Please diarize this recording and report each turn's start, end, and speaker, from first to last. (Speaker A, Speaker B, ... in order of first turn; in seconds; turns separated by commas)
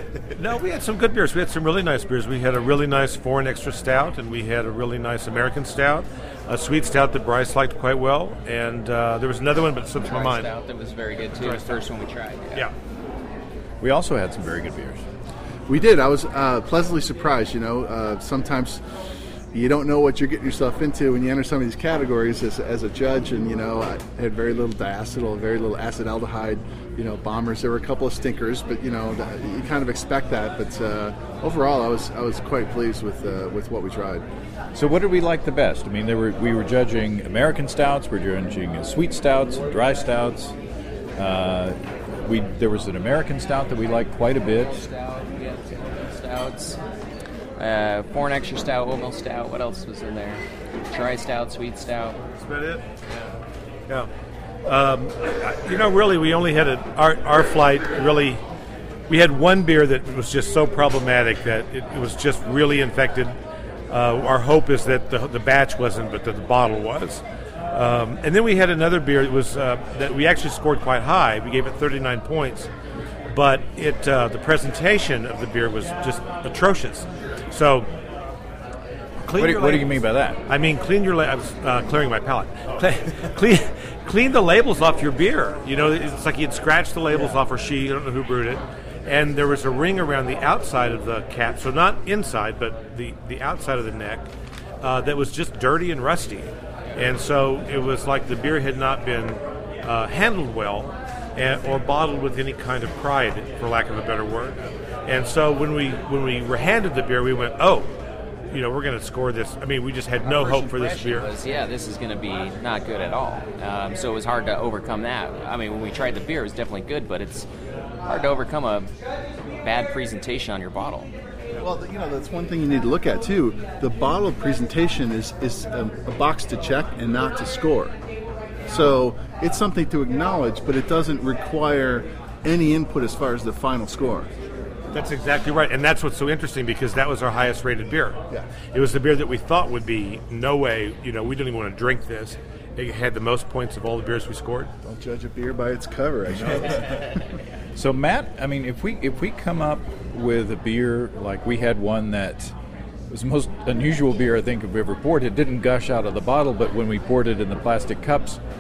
Speaker A: 0.3-10.5, Speaker B: 9.9-12.7, Speaker A: 11.4-11.8, Speaker C: 13.8-15.0, Speaker D: 15.7-18.8, Speaker D: 19.5-34.2, Speaker C: 34.7-40.5, Speaker C: 41.1-44.9, Speaker B: 44.8-46.8, Speaker B: 47.6-52.2, Speaker A: 52.4-52.8, Speaker A: 54.6-58.4, Speaker A: 59.1-63.4, Speaker A: 63.9-72.7, Speaker A: 73.3-77.9, Speaker A: 79.2-94.3, Speaker C: 79.3-80.4, Speaker A: 94.8-107.9, Speaker A: 108.5-111.3, Speaker B: 110.2-117.5, Speaker B: 118.0-118.9, Speaker B: 119.5-121.1, Speaker D: 121.6-128.0, Speaker D: 128.7-134.3, Speaker A: 134.9-138.2, Speaker A: 138.7-144.7, Speaker D: 144.8-147.2, Speaker C: 146.5-146.8, Speaker C: 147.8-152.5, Speaker C: 153.1-158.4